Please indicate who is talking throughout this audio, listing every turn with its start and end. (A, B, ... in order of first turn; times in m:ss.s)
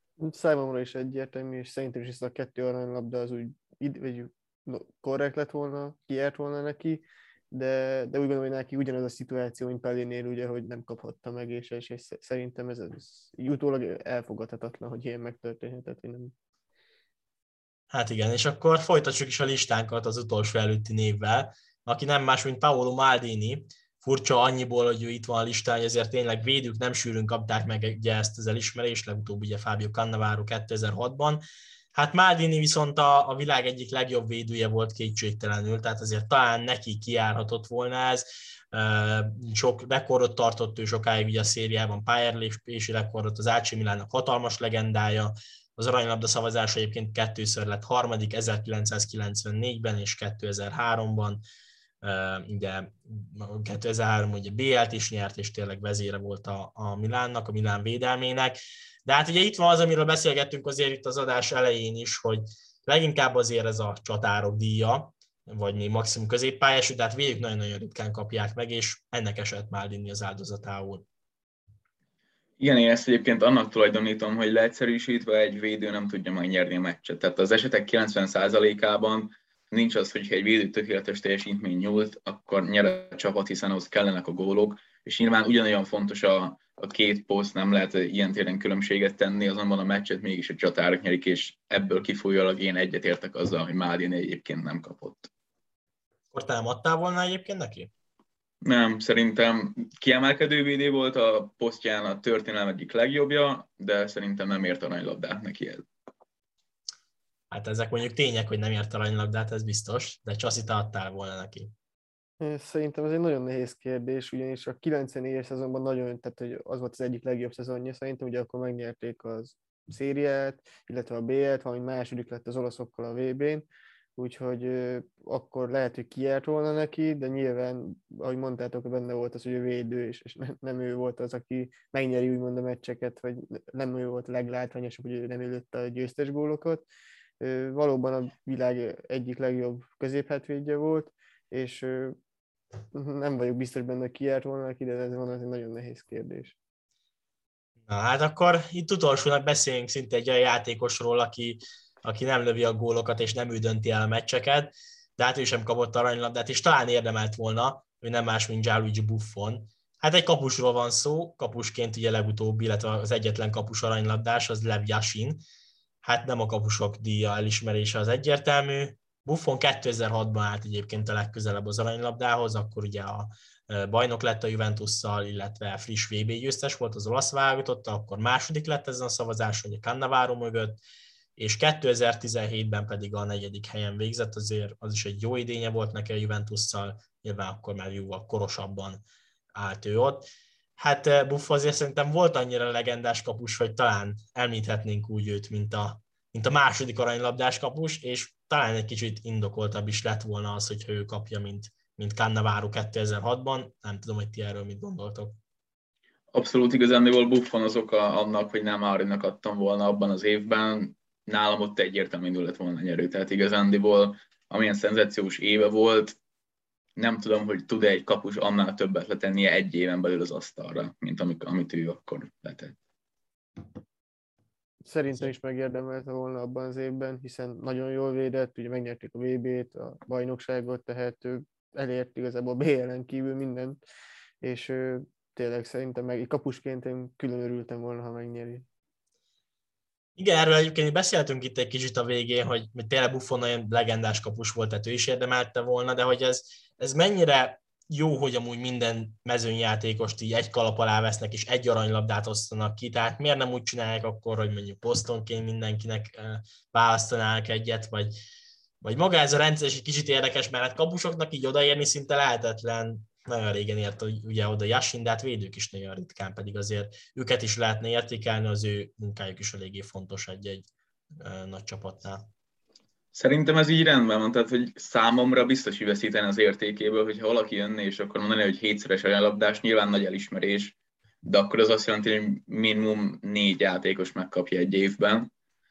0:00.2-0:16.3 A
0:17.9-0:31.4 B
0:32.0-0:51.4 B
0:52.0-1:11.0 B
1:12.6-1:35.3 C
1:36.3-1:37.9 B
1:38.6-1:45.8 C
1:47.5-1:51.7 B
1:52.4-2:03.7 A
2:04.2-2:16.9 A
2:17.4-2:22.2 A
2:22.9-2:26.6 A
2:27.9-2:45.4 B
2:46.0-3:00.8 B
3:01.4-3:09.0 B
3:09.5-3:25.4 B
3:26.3-3:36.2 C
3:37.0-3:42.8 C
3:44.8-3:53.8 A
3:54.4-3:58.6 A
4:00.2-4:18.2 B
4:18.8-4:30.7 B
4:31.2-4:32.3 B
4:33.1-4:45.3 C